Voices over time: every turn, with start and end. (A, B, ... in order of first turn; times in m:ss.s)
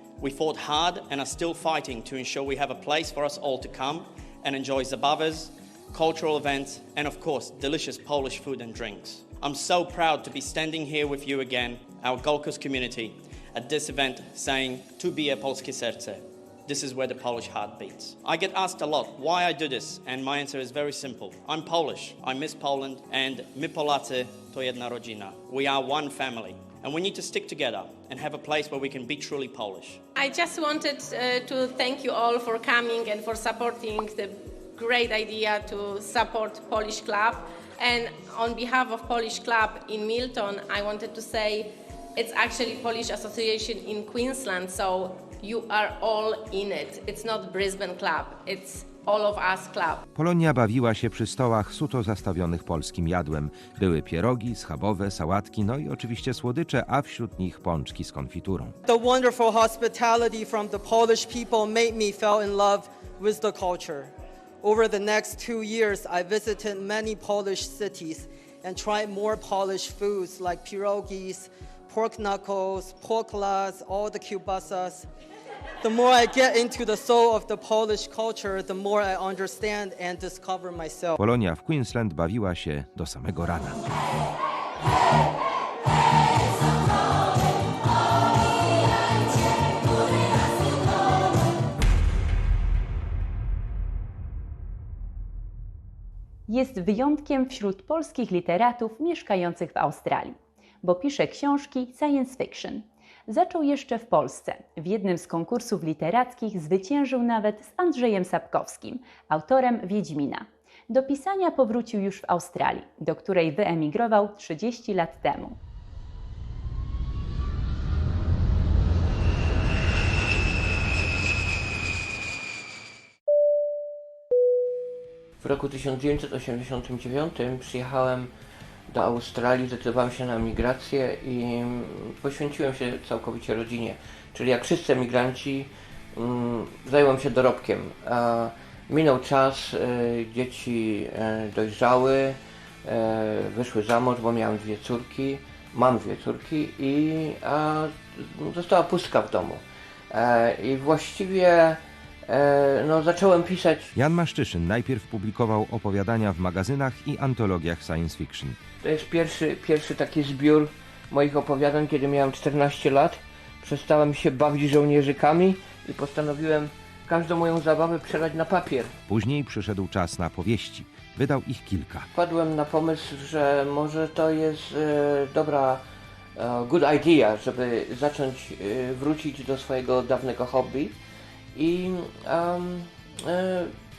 0:00.2-0:30.0 A
0:30.1-0:50.0 B
0:50.1-0:58.7 C
0:58.8-1:15.1 D
1:15.8-1:21.2 D
1:21.2-1:23.8 C
1:36.5-1:42.8 E
1:43.3-1:55.5 E
2:05.4-2:08.3 F
2:08.9-2:33.9 F
2:33.9-2:38.6 C
2:38.8-2:48.9 F
2:49.1-2:52.1 C
2:52.1-2:55.8 F
2:56.4-3:00.9 F
3:01.5-3:03.7 F